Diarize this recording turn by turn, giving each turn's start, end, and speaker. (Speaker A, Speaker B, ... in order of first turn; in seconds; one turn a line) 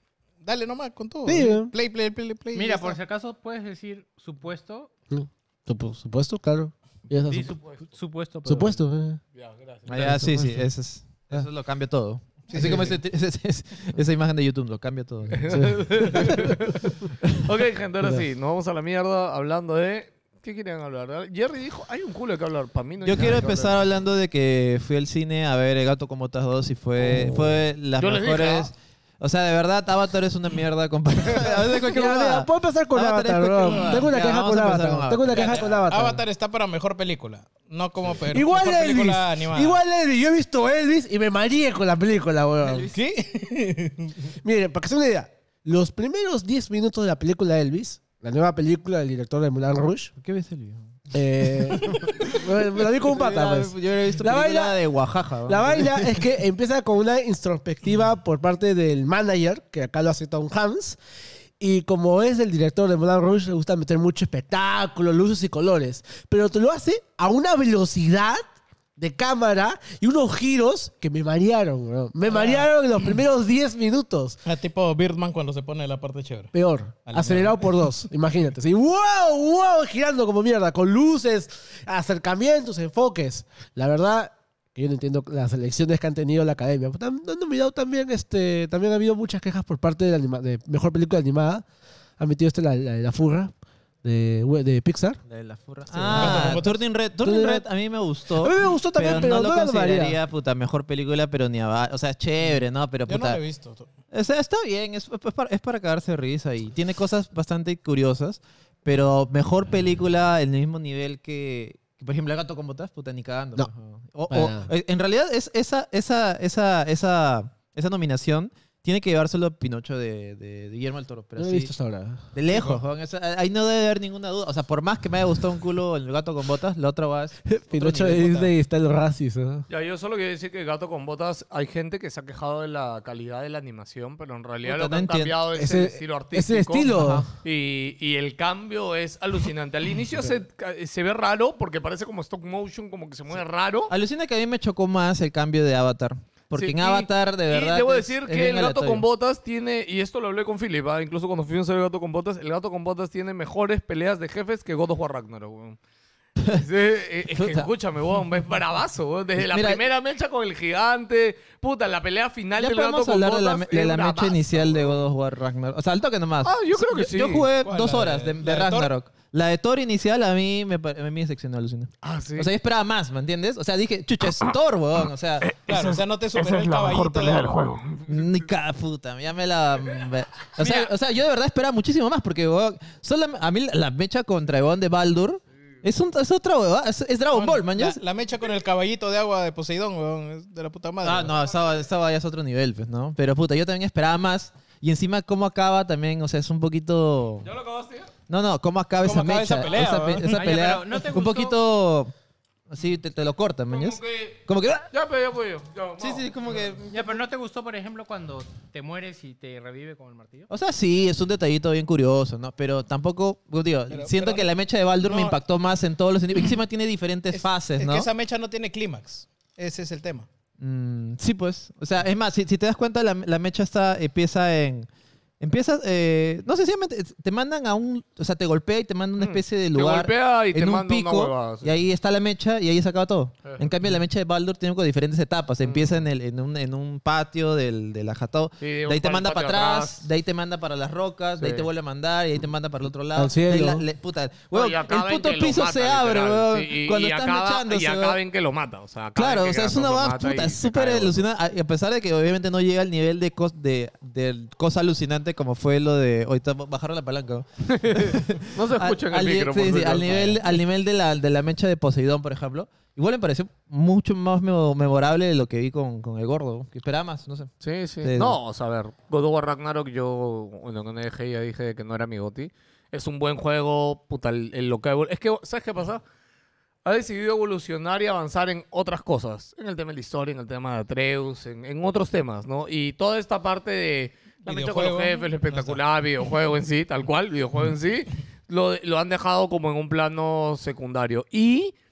Speaker A: 0.4-3.0
Speaker B: 1.2-1.7
Speaker C: 2.5-4.9
Speaker B: 5.1-7.6
Speaker C: 7.3-8.8
Speaker D: 7.6-7.9
Speaker B: 8.5-9.2
Speaker D: 9.3-9.9
Speaker E: 9.9-16.4
Speaker B: 9.9-10.7
Speaker A: 12.5-13.0
Speaker D: 15.3-23.9
Speaker B: 15.5-16.6
Speaker E: 23.0-35.7
Speaker D: 27.0-28.7
Speaker B: 31.4-36.2
Speaker A: 33.6-34.1
Speaker A: 35.3-39.8
Speaker B: 38.3-42.9
Speaker E: 42.7-42.9
Speaker A: 42.9-44.2
Speaker B: 44.4-50.1
Speaker E: 50.2-50.9
Speaker B: 51.1-54.8
Speaker E: 51.9-52.2
Speaker E: 52.9-56.3
Speaker B: 55.5-61.0
Speaker B: 61.6-68.4
Speaker B: 69.0-74.4
Speaker A: 72.3-72.7
Speaker A: 74.5-76.5
Speaker B: 76.5-91.6
Speaker A: 77.0-77.9
Speaker B: 92.2-93.5
Speaker B: 94.0-95.2
Speaker E: 95.3-103.4
Speaker A: 96.0-96.8
Speaker B: 96.1-96.6
Speaker B: 97.2-97.7
Speaker B: 98.4-100.2
Speaker A: 103.1-103.9
Speaker E: 104.1-121.7
Speaker B: 114.3-114.7
Speaker B: 121.4-122.3
Speaker E: 122.3-128.5
Speaker A: 122.5-122.8
Speaker B: 127.5-129.7
Speaker D: 129.7-143.9
Speaker E: 134.6-135.4
Speaker B: 135.6-137.3
Speaker E: 137.0-137.3
Speaker E: 143.9-149.1
Speaker D: 146.5-155.8
Speaker D: 156.5-165.0
Speaker E: 157.3-157.7
Speaker E: 159.4-159.8
Speaker E: 162.6-175.5
Speaker D: 166.4-167.5
Speaker A: 167.6-168.9
Speaker D: 172.0-172.5
Speaker A: 175.7-177.7
Speaker D: 175.7-178.1
Speaker E: 178.1-188.0
Speaker A: 187.3-191.3
Speaker E: 191.0-197.5
Speaker D: 197.4-198.1
Speaker E: 198.3-202.1
Speaker A: 199.0-200.5
Speaker C: 200.3-201.6
Speaker E: 202.7-204.9
Speaker D: 203.7-204.4
Speaker D: 204.9-206.2
Speaker E: 206.0-207.2
Speaker C: 206.9-210.5
Speaker E: 210.5-218.1
Speaker A: 213.9-214.5
Speaker A: 215.0-215.4
Speaker A: 217.3-220.3
Speaker E: 220.6-224.9
Speaker E: 225.4-248.2
Speaker D: 229.2-231.7
Speaker D: 235.6-235.9
Speaker D: 238.6-240.0
Speaker D: 241.4-241.7
Speaker B: 243.2-243.8
Speaker D: 244.5-251.2
Speaker E: 249.2-267.5
Speaker D: 257.7-260.6
Speaker D: 267.6-276.0
Speaker E: 268.0-268.4
Speaker D: 276.9-291.7
Speaker A: 284.4-285.8